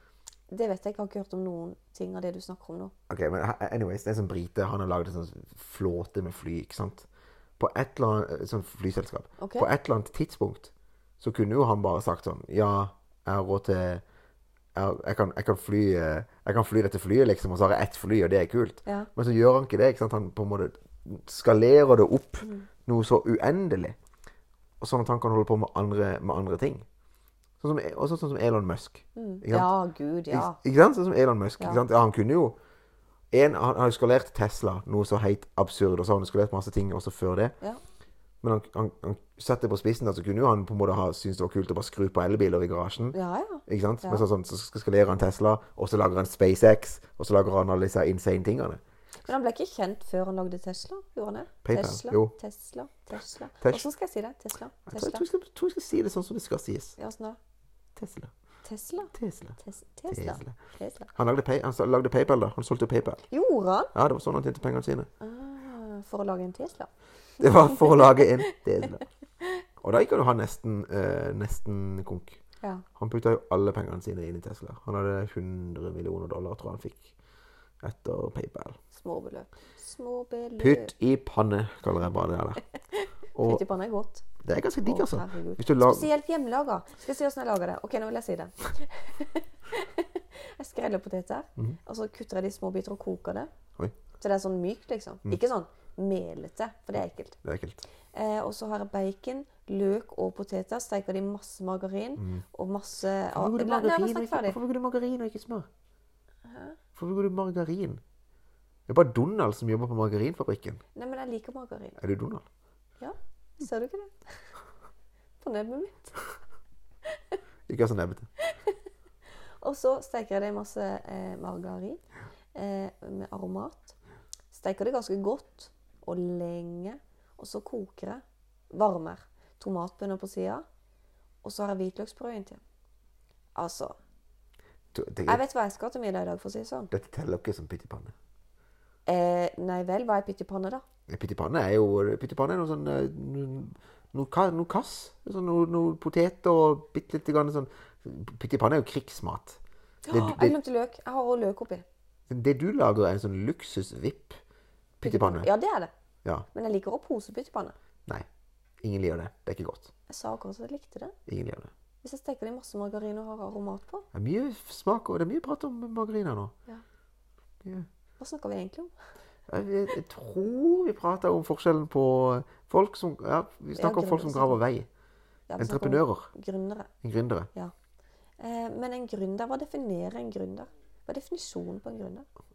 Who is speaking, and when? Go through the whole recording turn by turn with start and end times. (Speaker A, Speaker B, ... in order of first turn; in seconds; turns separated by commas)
Speaker A: 0.5-2.9, Speaker B: 3.1-14.0, Speaker A: 9.4-9.7, Speaker B: 14.8-24.0, Speaker B: 24.8-26.9, Speaker B: 27.6-29.7, Speaker A: 29.2-30.6, Speaker B: 30.3-32.6, Speaker B: 33.3-37.5, Speaker B: 38.4-48.8, Speaker A: 43.1-44.3, Speaker A: 49.2-55.2, Speaker B: 51.6-52.4, Speaker B: 54.9-57.0, Speaker A: 57.0-57.4, Speaker B: 58.0-58.3, Speaker A: 58.6-61.1, Speaker B: 59.1-60.6, Speaker B: 61.1-63.2, Speaker A: 63.3-63.9, Speaker B: 63.9-65.1, Speaker A: 65.2-66.9, Speaker B: 67.4-69.0, Speaker A: 67.7-68.3, Speaker B: 69.8-72.4, Speaker B: 73.0-77.1, Speaker B: 77.8-78.8, Speaker A: 78.9-80.9, Speaker B: 80.6-82.6, Speaker A: 83.0-84.2, Speaker B: 83.3-83.6, Speaker B: 84.4-86.1, Speaker A: 84.8-93.5, Speaker A: 94.2-97.4, Speaker B: 97.4-97.8, Speaker A: 98.1-104.6, Speaker B: 102.2-102.5, Speaker B: 103.3-105.7, Speaker A: 106.5-106.8, Speaker B: 107.0-108.0, Speaker B: 108.9-110.8, Speaker A: 111.0-112.0, Speaker B: 112.0-112.5, Speaker A: 113.0-114.5, Speaker A: 115.4-116.2, Speaker B: 117.7-118.3, Speaker A: 118.5-118.8, Speaker A: 119.6-122.0, Speaker A: 122.5-124.0, Speaker A: 124.5-130.6, Speaker A: 131.4-132.6, Speaker A: 133.6-133.9, Speaker B: 134.9-135.4, Speaker A: 135.3-136.9, Speaker B: 136.9-138.1, Speaker A: 139.1-140.8, Speaker B: 141.1-150.6, Speaker A: 150.1-151.8, Speaker B: 152.3-154.4, Speaker B: 155.0-155.5, Speaker A: 155.0-155.9, Speaker A: 156.5-157.8, Speaker B: 158.8-159.9, Speaker A: 160.1-161.2, Speaker B: 161.3-161.7, Speaker A: 162.0-164.1, Speaker B: 164.1-166.6, Speaker A: 168.2-168.9, Speaker B: 169.5-174.9, Speaker A: 173.8-174.6, Speaker A: 175.5-176.9, Speaker B: 175.6-176.3, Speaker B: 177.0-177.5, Speaker A: 178.4-182.3